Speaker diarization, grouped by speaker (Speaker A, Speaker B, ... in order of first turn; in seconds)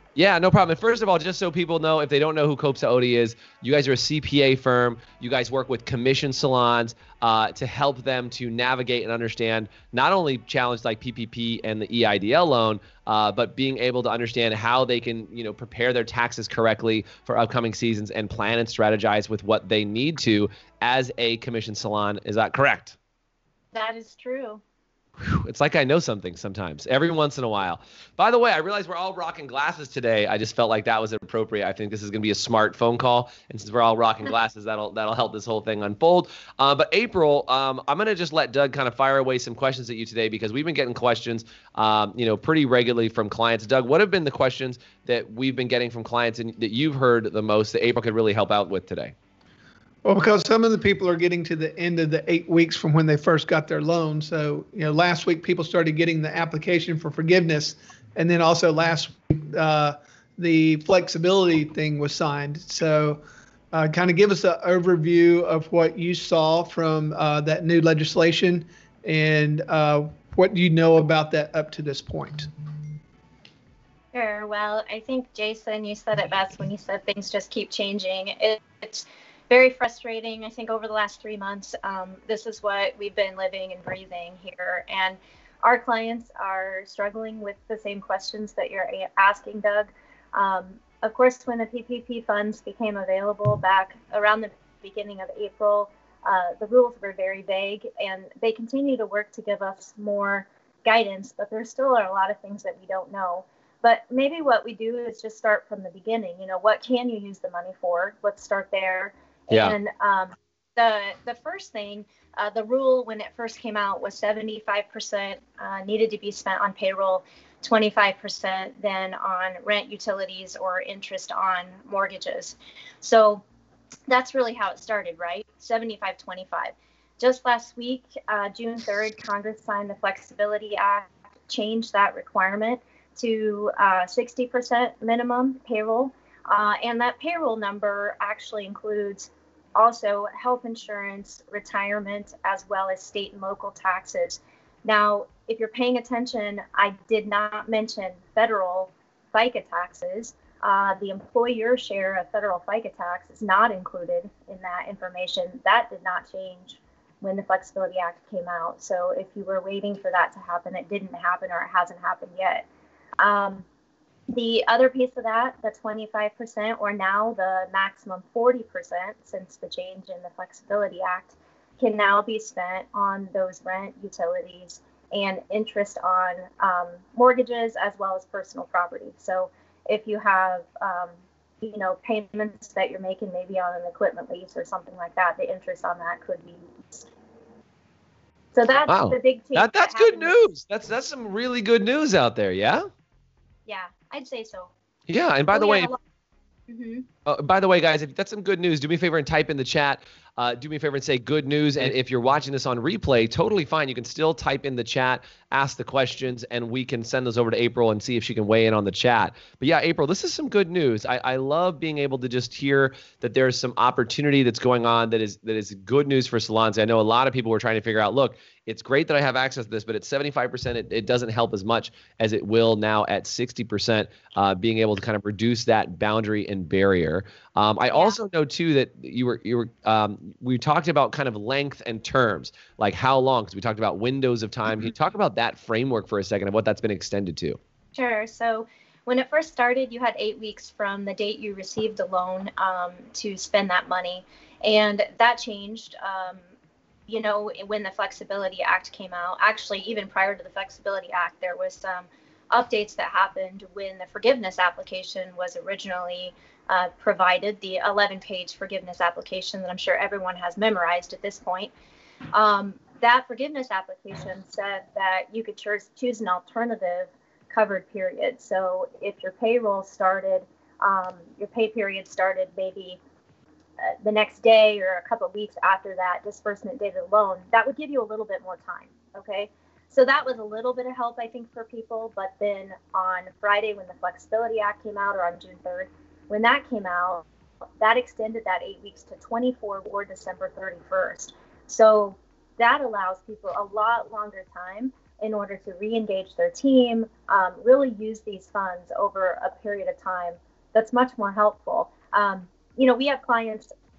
Speaker A: 0.1-22.9, 25.2-49.1, 109.5-109.8, 188.9-192.9, 195.1-195.9, 197.2-237.6
Speaker B: 23.7-24.6, 74.1-123.4, 124.1-162.7, 163.2-163.6, 164.3-187.1, 188.5-190.3, 193.7-194.7, 195.5-196.0, 196.7-197.1, 227.9-228.2, 237.9-246.4, 247.1-261.7, 262.3-273.0, 273.8-287.2, 287.8-303.7
Speaker C: 50.0-72.5